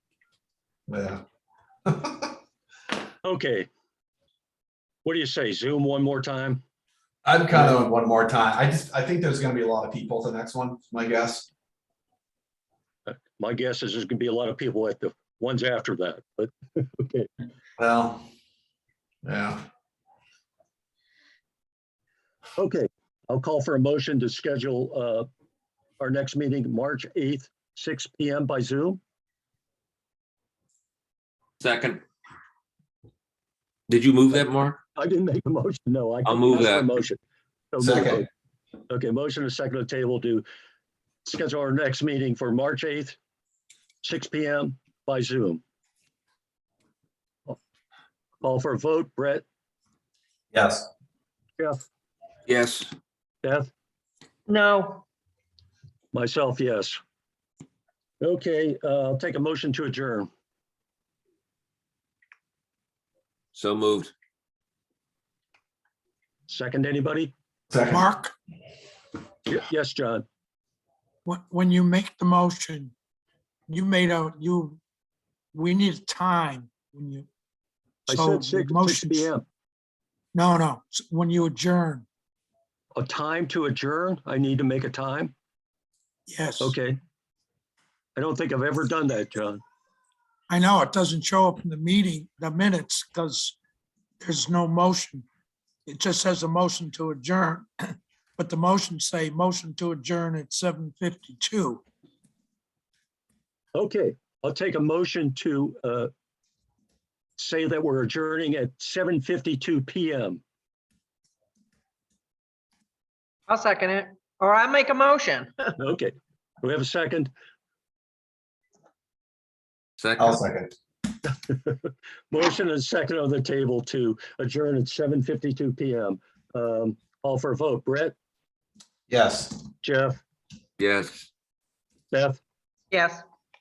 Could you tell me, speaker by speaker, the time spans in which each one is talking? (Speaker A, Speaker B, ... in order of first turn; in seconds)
Speaker A: 0.9-1.2, 1.9-2.3, 7.2-11.5, 17.8-18.2, 19.2-19.6, 37.8-38.2, 50.5-50.9, 67.7-68.1, 120.2-120.7, 129.1-129.6
Speaker B: 3.2-3.7, 5.0-6.6, 7.5-7.8, 13.1-17.3, 22.6-25.3, 26.0-29.0, 35.0-37.2, 37.7-38.3, 38.9-40.5, 41.2-43.2, 44.0-45.6, 48.4-49.5, 53.4-53.7, 56.1-57.0, 58.2-60.3, 66.5-67.3, 69.5-70.2, 78.1-79.5, 83.0-85.3, 86.6-87.0, 88.2-89.6, 103.8-106.1, 107.4-110.4, 115.8-117.3, 121.3-128.1, 129.8-130.2, 132.1-132.4
Speaker C: 31.6-32.0, 33.9-34.8, 36.2-36.9, 52.5-52.9, 63.5-64.1, 120.0-120.4, 130.8-131.3
Speaker D: 54.5-55.0, 113.5-115.7, 132.9-133.2
Speaker E: 67.9-68.3, 71.2-72.9, 73.7-74.8, 75.5-77.3, 78.1-79.3, 80.3-82.1, 86.3-86.8, 90.5-93.6, 94.2-95.2, 95.9-97.7, 98.4-101.8